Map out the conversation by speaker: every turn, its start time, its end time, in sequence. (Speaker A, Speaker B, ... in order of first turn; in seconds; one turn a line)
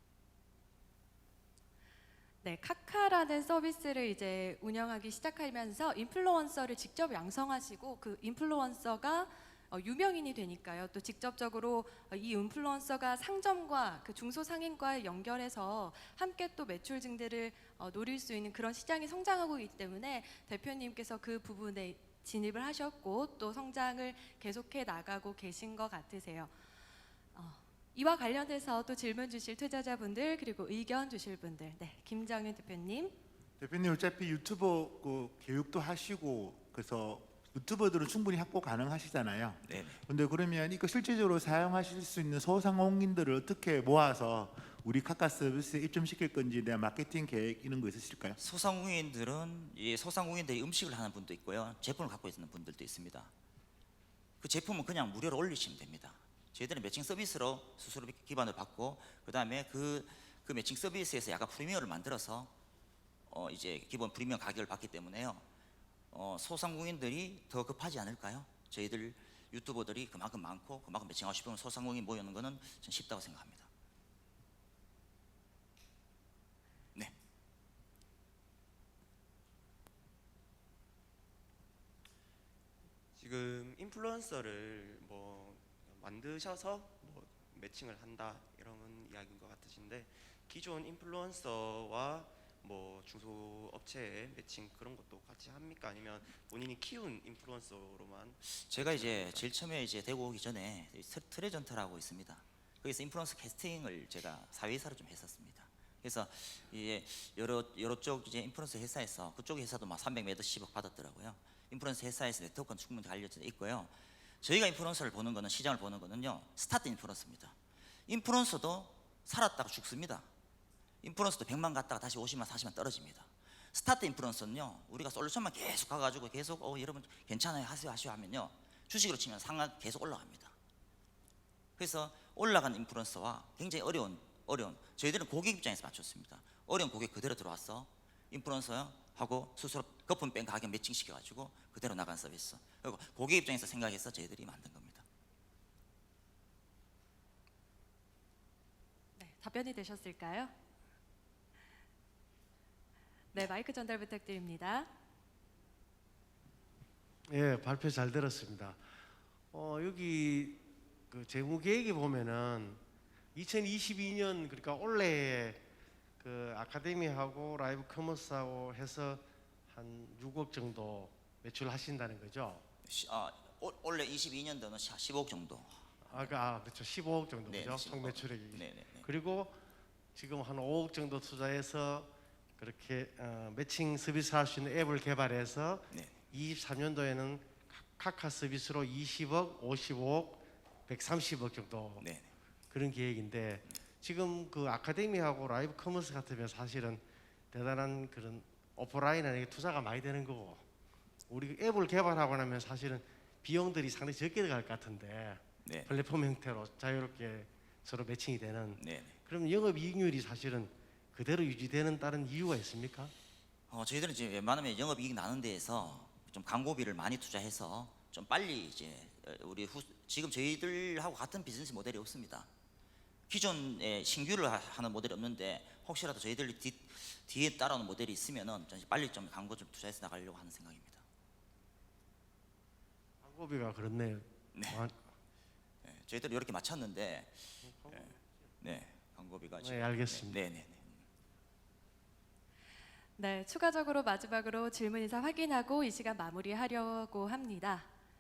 Speaker A: 2.4-26.5
Speaker A: 27.4-33.2
Speaker B: 33.6-48.4
Speaker C: 39.6-40.0
Speaker C: 48.4-53.3
Speaker C: 54.4-62.5
Speaker C: 63.3-65.4
Speaker C: 66.1-73.7
Speaker D: 83.2-99.5
Speaker C: 98.5-117.6
Speaker C: 118.1-120.3
Speaker C: 121.0-130.5
Speaker C: 131.8-145.1
Speaker A: 149.2-150.5
Speaker A: 153.3-154.9
Speaker E: 157.3-158.8
Speaker E: 159.5-162.8
Speaker E: 163.3-165.6
Speaker E: 166.2-172.6
Speaker C: 172.8-176.4
Speaker E: 176.1-179.6
Speaker C: 177.5-179.1
Speaker E: 180.2-192.1
Speaker C: 185.9-186.2
Speaker C: 192.0-192.3
Speaker E: 192.7-200.6
Speaker E: 201.3-213.1
Speaker C: 205.6-205.9
Speaker C: 208.8-209.2
Speaker C: 213.7-222.5
Speaker C: 223.3-231.0
Speaker E: 233.2-234.9
Speaker C: 234.5-234.8
Speaker C: 235.8-241.0
Speaker E: 237.7-238.3
Speaker E: 239.6-240.4
Speaker A: 243.2-247.9